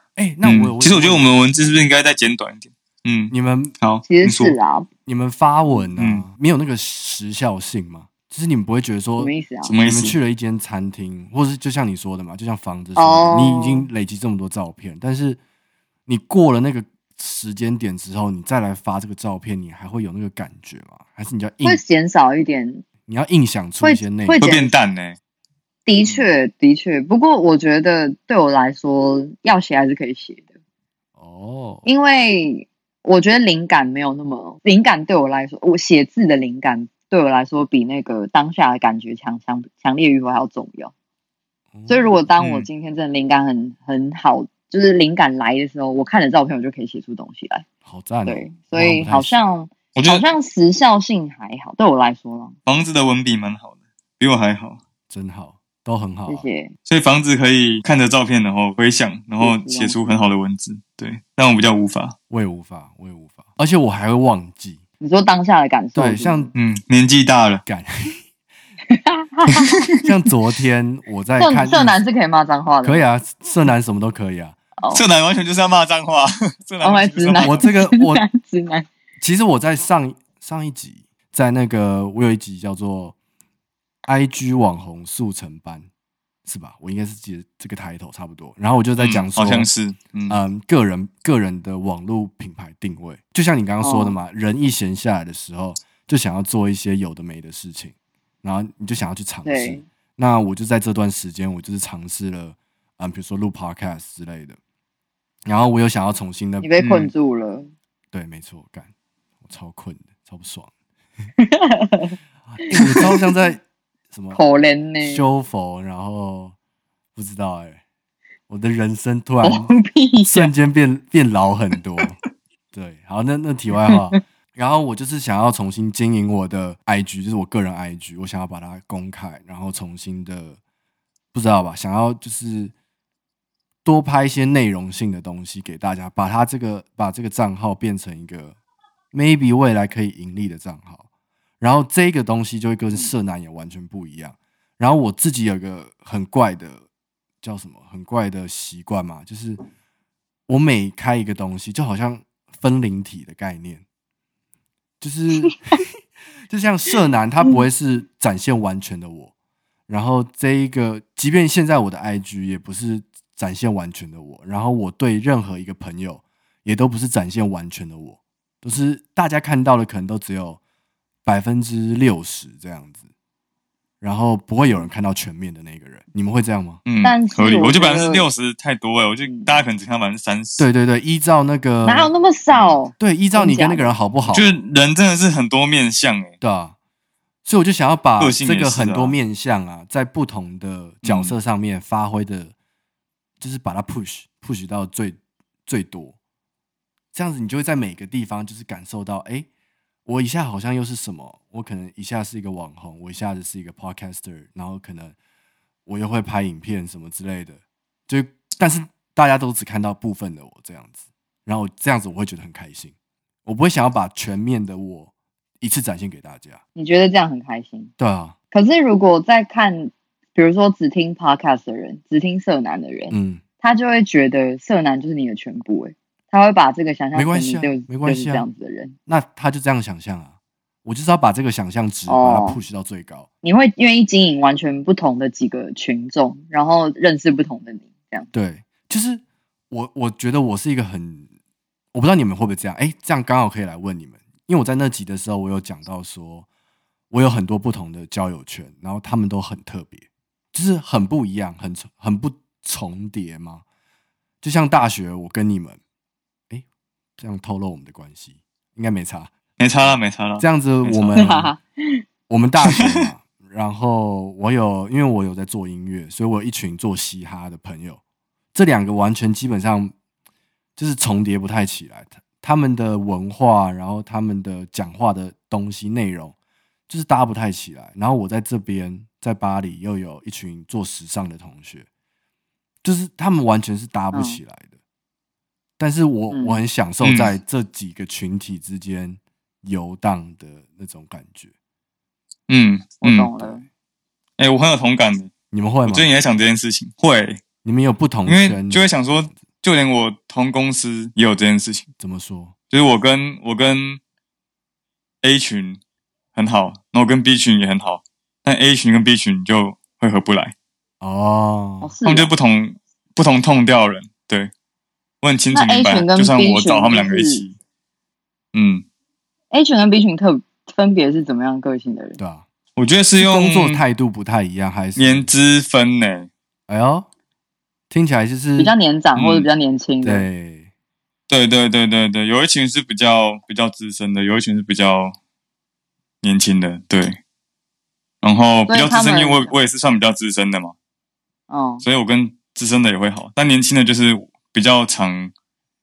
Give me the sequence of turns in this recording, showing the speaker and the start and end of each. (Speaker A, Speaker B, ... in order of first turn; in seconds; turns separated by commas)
Speaker A: 0.2-1.5, Speaker B: 0.4-4.6, Speaker A: 3.3-3.8, Speaker C: 4.0-4.9, Speaker A: 5.1-15.4, Speaker B: 6.0-6.2, Speaker C: 9.2-9.7, Speaker B: 9.6-10.2, Speaker C: 13.0-13.9, Speaker A: 16.1-21.8, Speaker C: 21.6-22.9, Speaker A: 23.1-24.4, Speaker C: 23.8-24.7, Speaker B: 24.4-25.2, Speaker C: 25.9-30.5, Speaker A: 31.2-31.9, Speaker C: 31.9-40.9, Speaker A: 41.7-42.1, Speaker C: 41.9-47.7, Speaker B: 42.4-42.7, Speaker A: 47.9-49.5, Speaker C: 48.2-52.6, Speaker B: 50.0-50.2, Speaker B: 52.7-54.8, Speaker A: 55.1-56.5, Speaker C: 56.3-56.7, Speaker B: 56.9-62.2, Speaker C: 59.4-60.0, Speaker A: 62.3-64.8, Speaker C: 65.0-66.5, Speaker A: 66.0-66.5, Speaker B: 66.5-67.6, Speaker A: 67.7-68.2, Speaker C: 68.9-69.7, Speaker A: 70.0-72.0, Speaker C: 71.4-73.1, Speaker A: 72.8-74.6, Speaker B: 74.9-77.6, Speaker C: 76.8-78.9, Speaker A: 77.4-78.2, Speaker A: 79.2-83.2, Speaker A: 84.1-85.9, Speaker A: 86.5-89.7, Speaker B: 89.0-90.4, Speaker A: 90.3-104.6, Speaker C: 93.8-94.2, Speaker C: 99.5-99.8, Speaker A: 105.5-106.7, Speaker C: 106.6-107.7, Speaker B: 106.8-107.1, Speaker A: 108.1-108.9, Speaker A: 109.4-110.7, Speaker C: 111.4-112.2, Speaker A: 112.5-114.4, Speaker C: 112.7-113.1, Speaker C: 114.3-115.3, Speaker A: 115.0-116.5, Speaker A: 117.2-117.8, Speaker A: 118.5-119.7, Speaker C: 119.4-120.5, Speaker A: 120.2-122.2, Speaker A: 122.7-130.6, Speaker C: 123.9-124.2, Speaker A: 131.3-132.7, Speaker A: 133.8-138.5, Speaker A: 139.1-141.0, Speaker A: 141.6-146.8, Speaker A: 147.4-149.6, Speaker A: 150.5-153.8, Speaker A: 155.0-155.8, Speaker A: 156.5-159.3, Speaker A: 159.9-170.6, Speaker A: 171.2-173.0, Speaker A: 174.0-176.8, Speaker B: 176.9-180.7, Speaker C: 177.0-178.3, Speaker C: 179.3-179.6, Speaker A: 180.6-182.1, Speaker C: 181.8-183.9, Speaker B: 182.5-182.8, Speaker A: 182.9-184.6, Speaker B: 184.3-186.3, Speaker A: 186.4-186.8, Speaker A: 187.4-192.5, Speaker B: 188.2-189.2, Speaker B: 191.0-191.3, Speaker A: 193.4-196.2, Speaker A: 197.1-199.5, Speaker A: 200.1-205.2, Speaker A: 205.9-210.9, Speaker A: 211.5-212.9, Speaker A: 213.5-216.6, Speaker C: 216.8-217.9, Speaker A: 218.0-218.3, Speaker C: 218.5-229.0, Speaker A: 223.1-223.4, Speaker A: 227.2-228.4, Speaker A: 229.1-230.3, Speaker A: 230.8-233.3, Speaker C: 232.1-232.6, Speaker C: 233.4-238.3, Speaker A: 238.3-241.3, Speaker A: 241.9-246.5, Speaker A: 247.1-253.6, Speaker A: 254.4-255.8, Speaker A: 257.2-261.5, Speaker B: 259.6-261.2, Speaker C: 261.2-262.0, Speaker A: 262.3-268.0, Speaker B: 262.6-263.1, Speaker A: 268.5-269.9, Speaker A: 270.8-276.4, Speaker A: 276.9-281.9, Speaker A: 282.8-284.8, Speaker C: 284.1-284.4, Speaker A: 285.8-291.5, Speaker C: 286.3-286.6, Speaker B: 287.0-287.4, Speaker B: 292.5-293.3, Speaker C: 293.0-293.6, Speaker B: 294.4-295.3, Speaker A: 295.5-296.1, Speaker B: 295.9-297.4, Speaker A: 297.6-299.4, Speaker B: 298.3-301.9, Speaker A: 302.0-302.6, Speaker B: 302.7-304.0, Speaker B: 305.2-305.8, Speaker B: 306.4-310.6, Speaker A: 311.0-311.9, Speaker C: 311.8-312.3, Speaker B: 312.1-314.5, Speaker B: 315.2-317.6, Speaker C: 315.5-317.4, Speaker B: 318.5-318.9, Speaker C: 319.5-322.2, Speaker A: 322.2-322.4, Speaker B: 322.8-323.8, Speaker A: 323.2-325.3, Speaker B: 325.0-326.3, Speaker A: 326.7-327.1, Speaker A: 327.9-328.8, Speaker C: 328.6-330.3, Speaker B: 329.2-329.5, Speaker A: 330.0-330.7, Speaker B: 331.3-335.2, Speaker B: 336.2-337.2, Speaker B: 338.2-340.8, Speaker C: 338.7-339.5, Speaker C: 341.5-341.8, Speaker B: 341.8-345.3